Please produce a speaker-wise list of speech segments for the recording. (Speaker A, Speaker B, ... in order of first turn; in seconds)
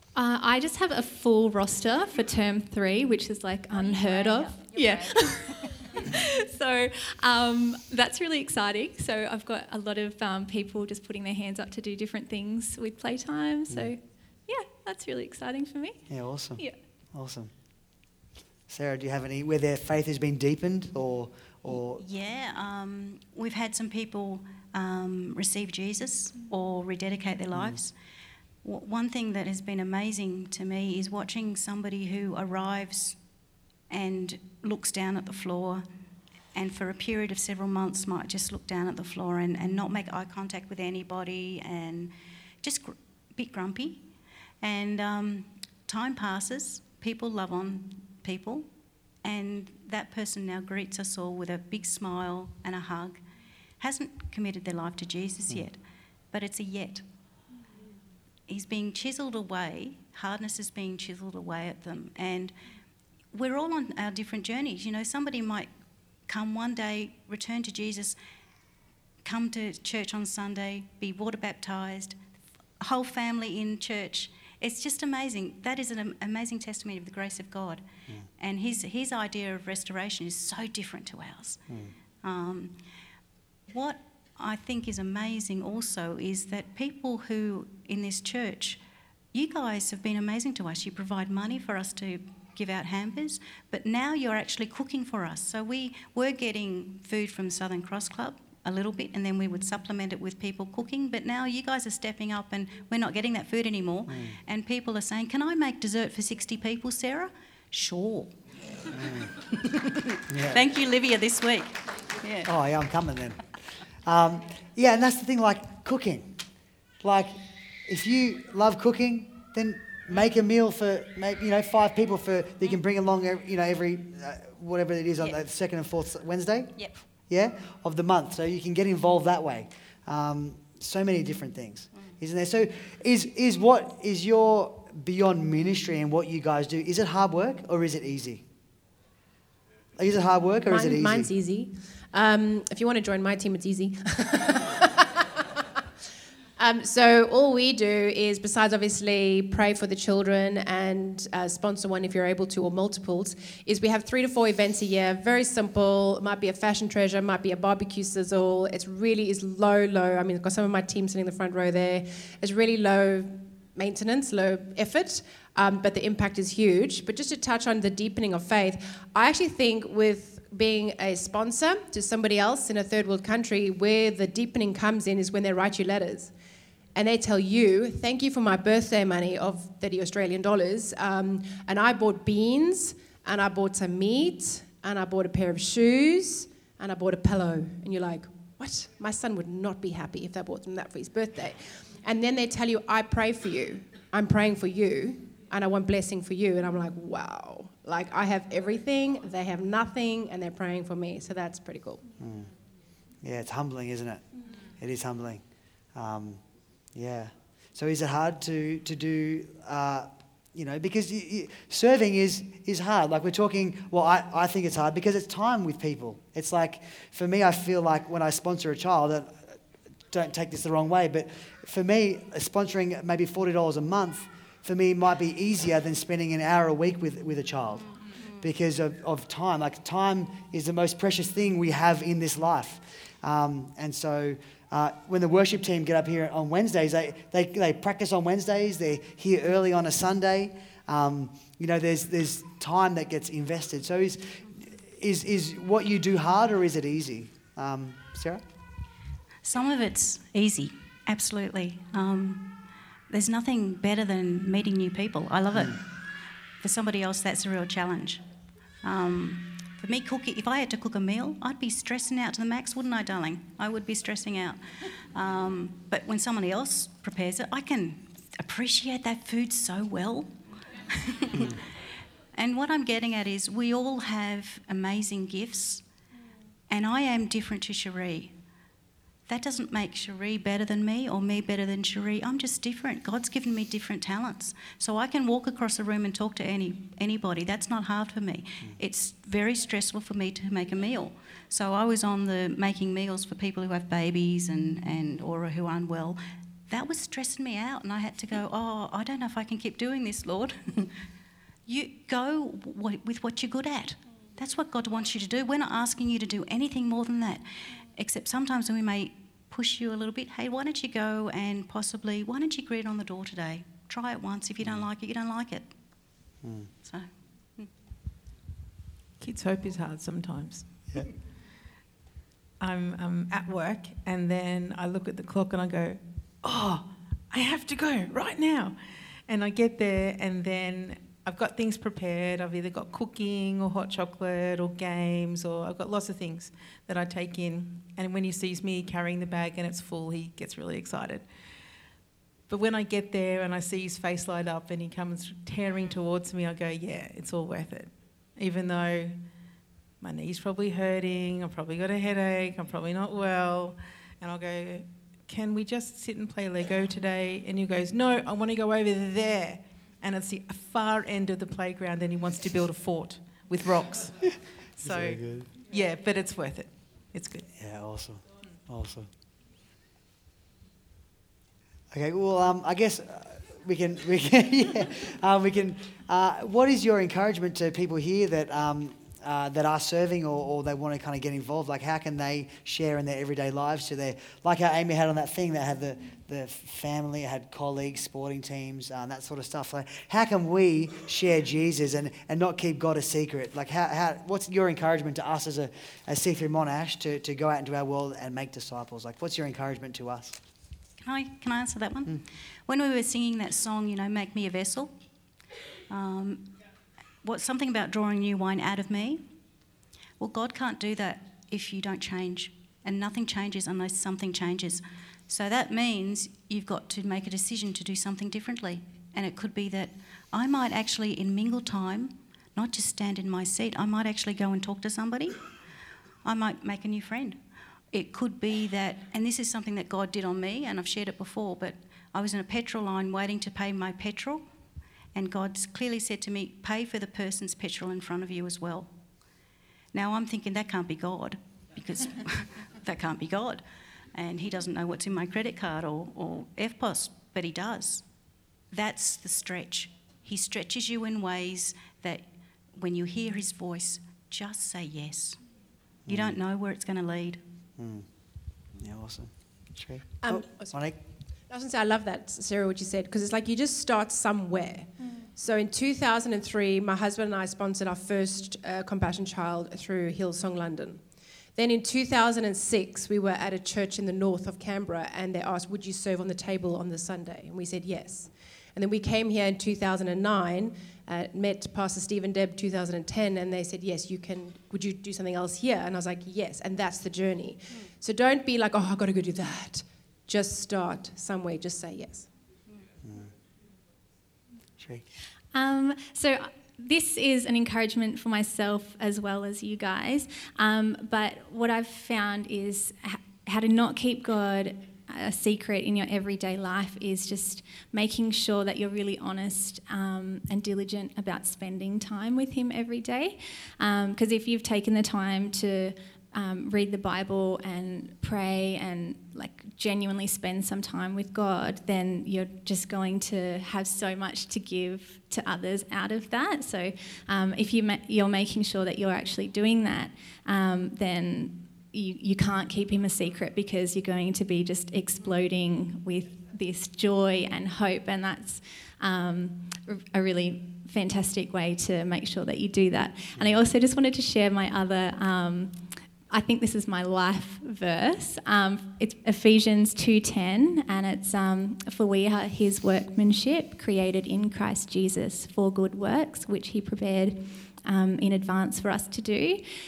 Speaker A: 0.1-16.0, 495.5-545.8, 546.3-559.6
Speaker B: 3.7-5.8, 21.9-27.9, 28.6-33.2, 33.9-35.9, 36.5-44.0, 44.6-48.7, 49.2-53.2, 53.8-55.8, 56.3-57.0, 58.5-62.5, 63.3-65.7, 66.3-68.2, 69.2-72.2, 72.8-77.9, 78.4-81.6, 82.2-82.8, 83.7-88.8, 89.3-112.5, 249.4-256.0, 256.6-258.2, 258.8-271.6, 272.3-275.8, 276.7-278.4, 279.3-301.0, 301.7-315.7, 316.8-317.7, 401.0-404.9, 405.9-406.6, 407.2-409.2, 410.2-425.4, 426.2-427.4, 427.9-434.4, 435.1-438.9, 439.9-448.1, 448.7-455.4, 456.1-457.4
Speaker C: 16.1-17.5, 18.7-22.0, 27.5-27.8, 81.7-81.9, 104.1-104.4, 108.9-109.3, 110.3-110.6, 112.5-113.5, 114.0-116.4, 117.0-138.4, 140.0-141.3, 202.2-202.5, 203.2-204.2, 204.8-205.4, 205.9-206.4, 206.9-219.6, 220.1-248.4, 255.5-255.8, 314.6-314.9, 316.4-316.7, 364.8-365.5, 367.6-369.1, 371.9-400.4, 456.1-456.4, 457.8-458.1, 458.8-461.0, 493.0-493.3, 494.8-495.1
Speaker D: 140.7-145.1, 146.6-176.3, 176.9-202.0, 460.2-460.8, 461.5-471.0, 471.6-492.3
Speaker E: 319.2-321.1, 322.6-341.3, 342.5-349.2, 350.0-367.5